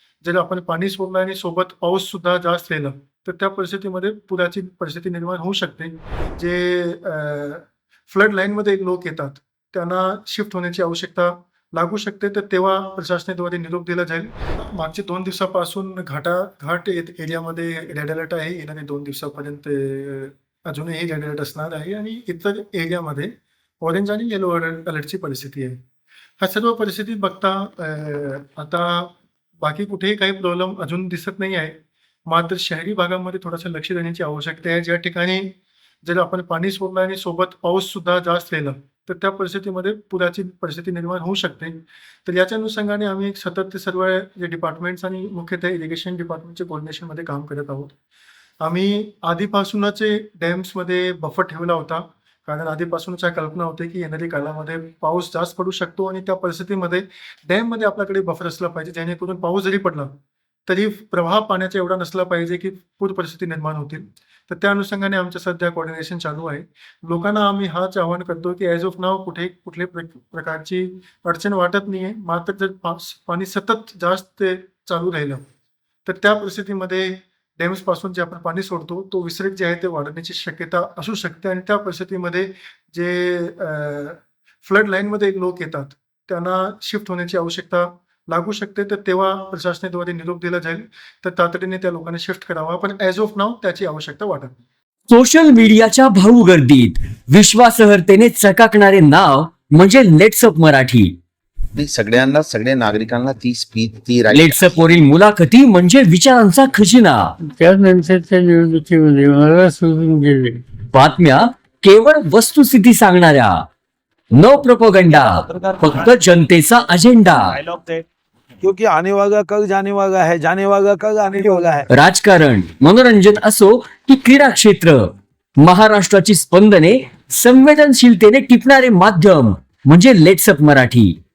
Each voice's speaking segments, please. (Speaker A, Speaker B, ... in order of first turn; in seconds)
Speaker A: 0.2-25.8, 26.4-31.8, 32.3-35.5, 36.0-47.9, 48.6-75.5, 76.0-94.5
Speaker B: 95.1-101.2, 104.3-107.3, 110.9-113.6, 114.3-117.6, 121.9-131.2
Speaker C: 101.8-104.8
Speaker D: 107.5-110.6
Speaker E: 117.5-118.0, 118.6-121.9